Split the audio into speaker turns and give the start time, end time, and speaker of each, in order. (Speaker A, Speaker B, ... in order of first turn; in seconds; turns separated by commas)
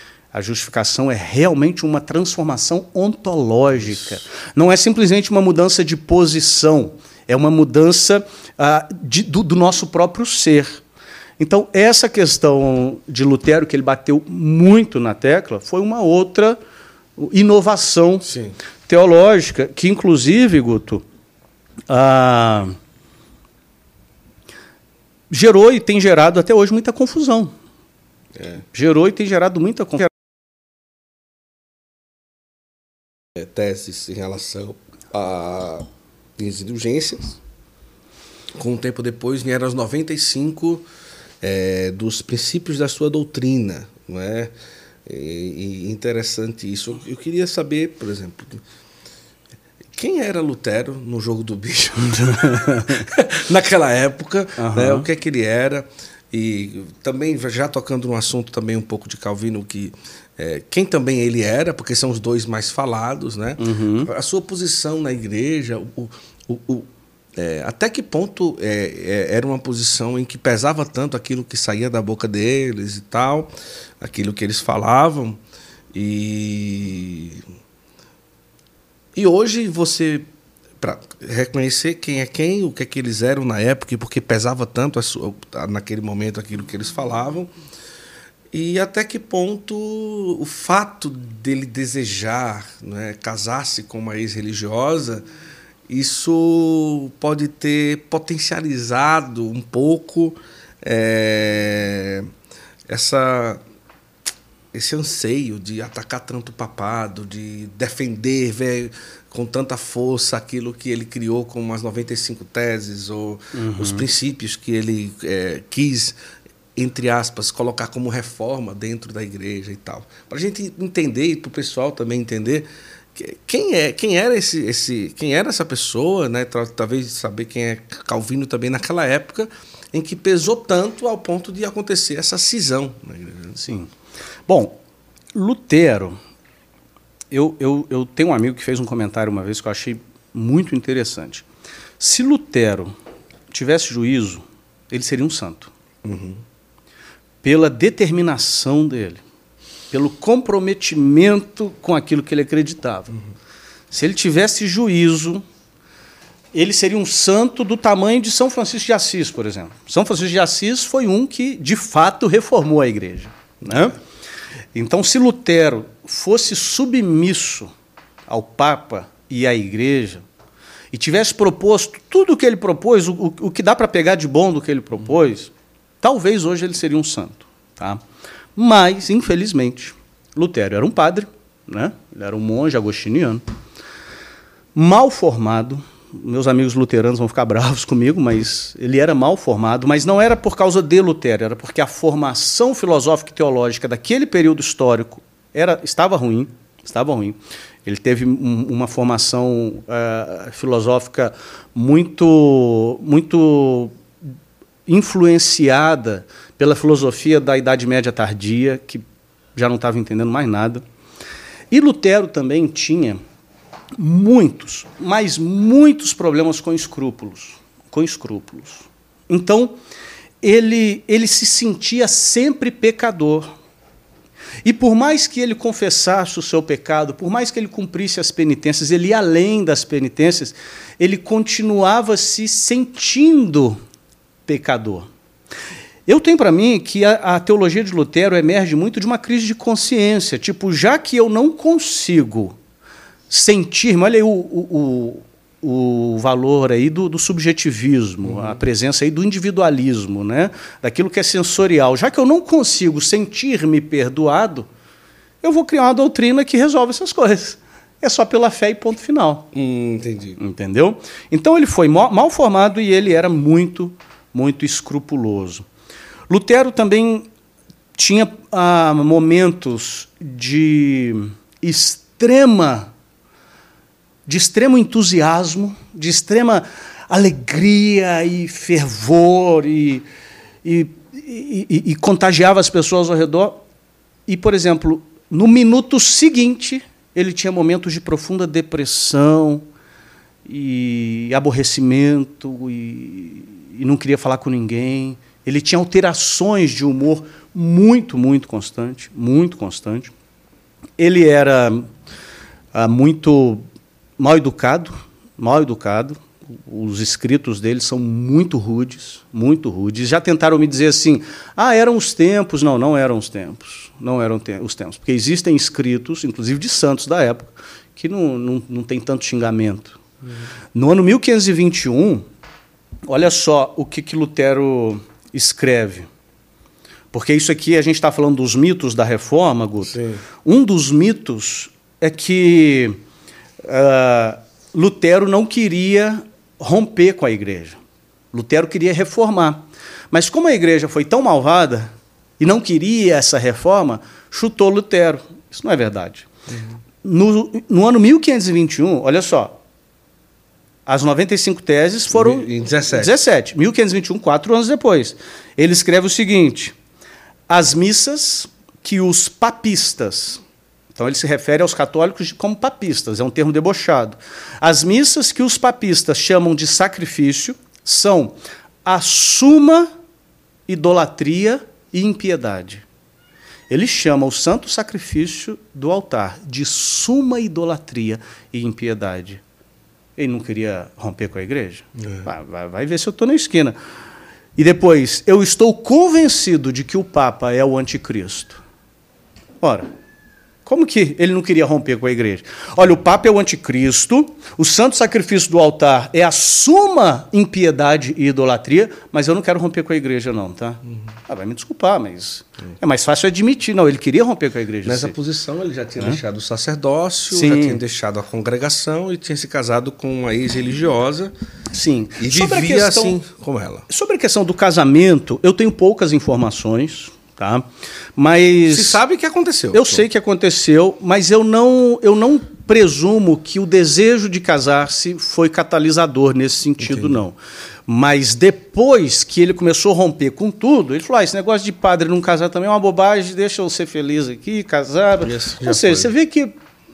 Speaker A: 0.3-10.8, Speaker A: 11.4-16.6, Speaker A: 17.1-18.3, Speaker B: 18.2-18.6, Speaker A: 18.9-21.0, Speaker A: 21.9-22.8, Speaker A: 25.3-27.5, Speaker B: 28.4-28.6, Speaker A: 28.7-30.1, Speaker B: 33.3-35.9, Speaker B: 36.4-37.4, Speaker B: 38.5-40.9, Speaker B: 41.4-44.5, Speaker B: 45.0-48.6, Speaker B: 50.0-75.4, Speaker A: 52.2-53.0, Speaker A: 54.6-55.1, Speaker A: 63.6-64.1, Speaker B: 75.9-77.4, Speaker B: 79.2-80.3, Speaker B: 80.8-87.5, Speaker B: 88.5-95.2, Speaker B: 95.9-102.3, Speaker B: 102.9-103.6, Speaker B: 104.7-116.1, Speaker A: 113.5-114.0, Speaker B: 116.8-133.6, Speaker A: 133.6-133.9, Speaker A: 134.5-134.8, Speaker A: 135.3-136.2, Speaker A: 137.3-141.4, Speaker A: 142.0-142.9, Speaker A: 143.5-145.7, Speaker B: 146.0-146.4, Speaker A: 147.4-149.2, Speaker A: 149.9-153.1, Speaker A: 153.9-155.4, Speaker A: 156.5-163.9, Speaker A: 164.7-167.7, Speaker A: 168.3-170.2, Speaker A: 170.9-178.0, Speaker A: 178.6-183.4, Speaker A: 184.7-204.0, Speaker A: 204.9-209.0, Speaker A: 209.5-210.8, Speaker A: 211.7-213.2, Speaker A: 213.9-219.8, Speaker A: 220.4-223.5, Speaker A: 224.6-233.8, Speaker A: 234.4-235.1, Speaker A: 236.1-242.6, Speaker A: 243.3-254.7, Speaker A: 255.4-259.5, Speaker B: 259.5-260.4, Speaker A: 260.4-265.6, Speaker A: 266.3-267.3, Speaker A: 267.9-272.9, Speaker A: 274.2-280.1, Speaker A: 280.6-283.6, Speaker A: 284.3-289.6, Speaker A: 290.4-300.1, Speaker A: 301.0-301.9, Speaker A: 302.7-303.6, Speaker A: 304.2-320.0, Speaker A: 320.7-322.2, Speaker A: 323.1-326.1, Speaker A: 327.1-333.0, Speaker B: 329.9-330.2, Speaker A: 333.6-337.8, Speaker A: 338.3-346.3, Speaker B: 346.5-346.8, Speaker A: 347.0-349.6, Speaker A: 350.9-356.7, Speaker B: 352.1-353.2, Speaker A: 357.5-360.4, Speaker A: 360.9-369.9, Speaker A: 370.7-372.8, Speaker A: 373.7-379.4, Speaker A: 380.1-383.8, Speaker A: 384.6-388.6, Speaker A: 389.6-389.9, Speaker A: 390.6-405.1, Speaker B: 404.8-411.3, Speaker A: 407.3-407.8, Speaker A: 411.7-413.2, Speaker B: 412.2-413.9, Speaker A: 413.9-419.0, Speaker B: 418.7-420.0, Speaker A: 419.7-427.4, Speaker B: 426.8-427.2, Speaker A: 427.9-436.6, Speaker B: 435.2-436.1